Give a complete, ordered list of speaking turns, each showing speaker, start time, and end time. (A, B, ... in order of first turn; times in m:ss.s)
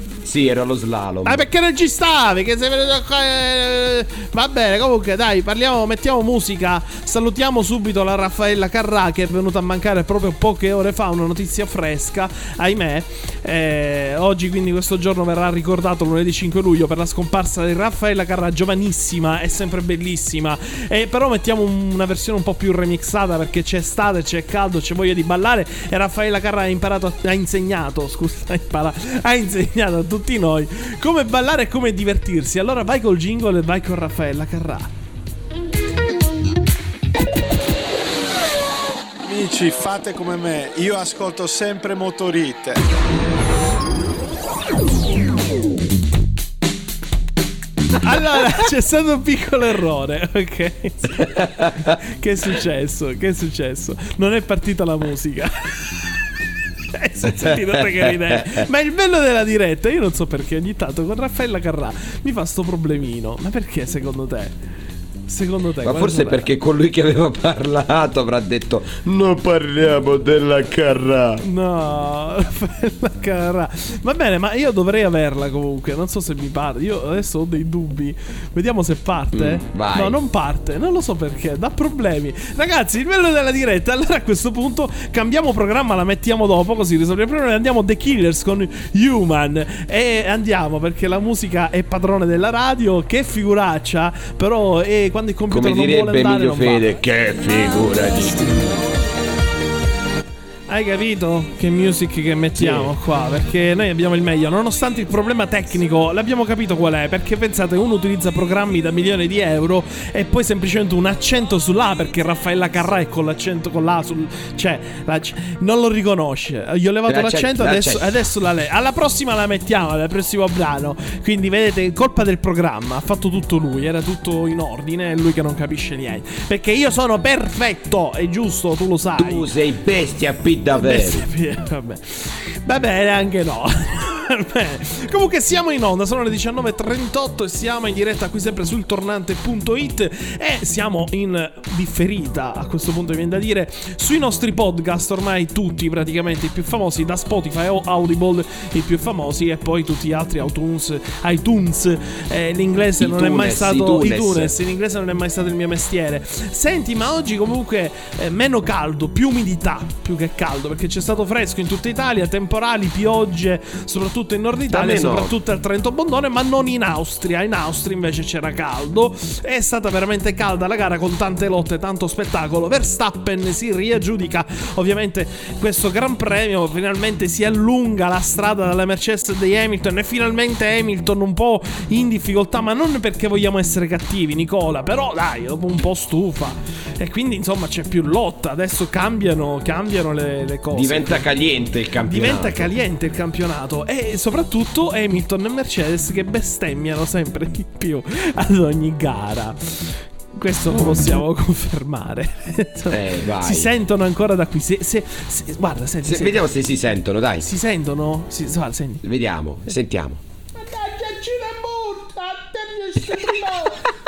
0:00.2-0:01.5 A
0:01.2-0:34.9 B
0:39.4-0:40.0 C
0:40.7-0:42.7 C
0:48.0-0:56.1 B
0:51.4-0:51.9 A
0:56.9-1:04.5 B
0:57.2-0:58.6 A
1:05.3-1:06.5 B
1:05.8-1:11.4 A
1:11.4-1:36.9 B
1:19.3-1:20.2 A
1:35.5-1:38.8 A
1:40.7-2:09.5 B
1:42.6-1:42.9 A
1:57.1-1:58.1 A
2:09.2-2:11.3 A
2:10.8-3:11.3 B
2:33.0-2:34.5 A
2:44.7-2:45.4 A
3:10.7-3:12.7 A
3:12.0-3:26.4 B
3:22.9-3:23.7 A
3:26.0-3:27.5 A
3:27.4-3:29.0 B
3:29.0-3:30.2 A
3:30.6-3:33.6 B
3:33.0-3:33.7 A